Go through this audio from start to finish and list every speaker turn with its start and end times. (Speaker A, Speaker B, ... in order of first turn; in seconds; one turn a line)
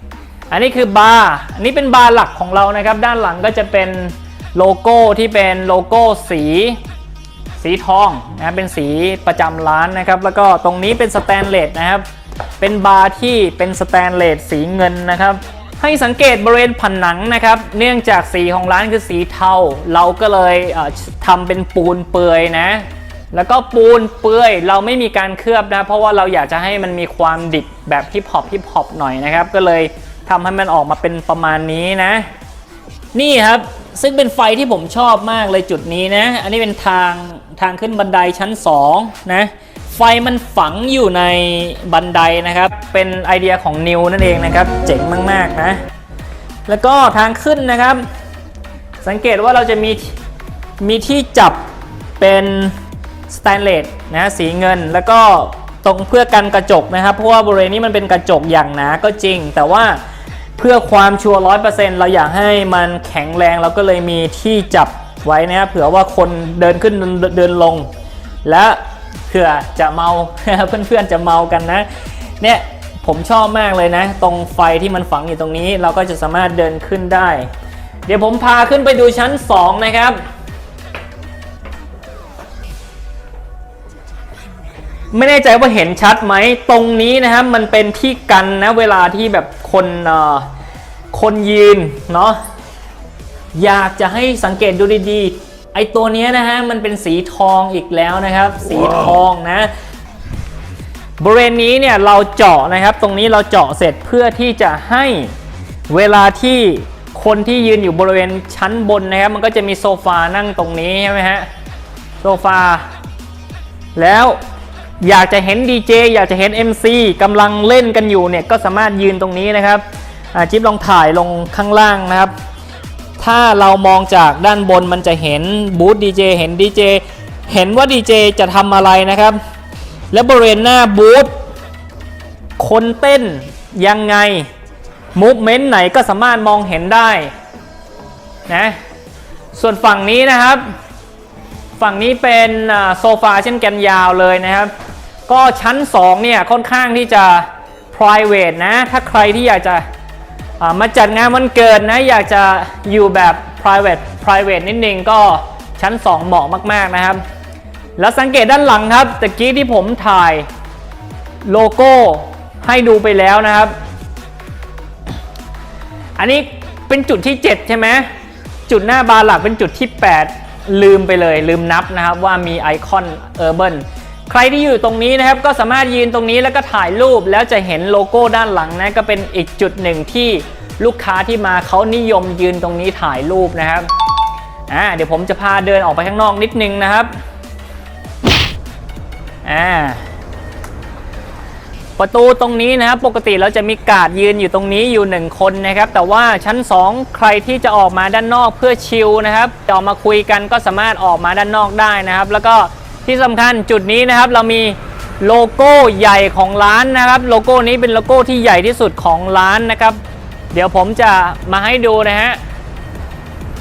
Speaker A: 0.5-6.8
Speaker A: 7.6-12.1
Speaker A: 12.6-32.3
Speaker A: 33.1-45.8
Speaker A: 46.7-48.0
Speaker A: 49.0-50.1
Speaker A: 50.8-51.6
Speaker A: 52.2-52.7
Speaker A: 53.3-60.0
Speaker A: 60.6-67.9
Speaker A: 68.4-71.9
Speaker A: 72.4-77.5
Speaker A: 78.0-80.2
Speaker A: 85.1-90.5
Speaker A: 91.1-92.4
Speaker A: 93.5-99.7
Speaker A: 101.2-105.3
Speaker A: 105.9-111.5
Speaker A: 112.2-112.8
Speaker A: 114.0-114.4
Speaker A: 115.0-119.8
Speaker A: 120.3-122.3
Speaker A: 123.2-129.4
Speaker A: 130.1-131.3
Speaker A: 132.6-134.5
Speaker A: 135.1-137.3
Speaker A: 138.5-138.8
Speaker A: 139.5-140.6
Speaker A: 141.8-144.7
Speaker A: 145.3-149.8
Speaker A: 150.6-157.2
Speaker A: 158.0-160.4
Speaker A: 161.4-163.7
Speaker A: 166.2-168.1
Speaker A: 168.7-183.9
Speaker A: 184.7-187.1
Speaker A: 189.4-190.0
Speaker A: 192.0-210.0
Speaker A: 210.5-212.4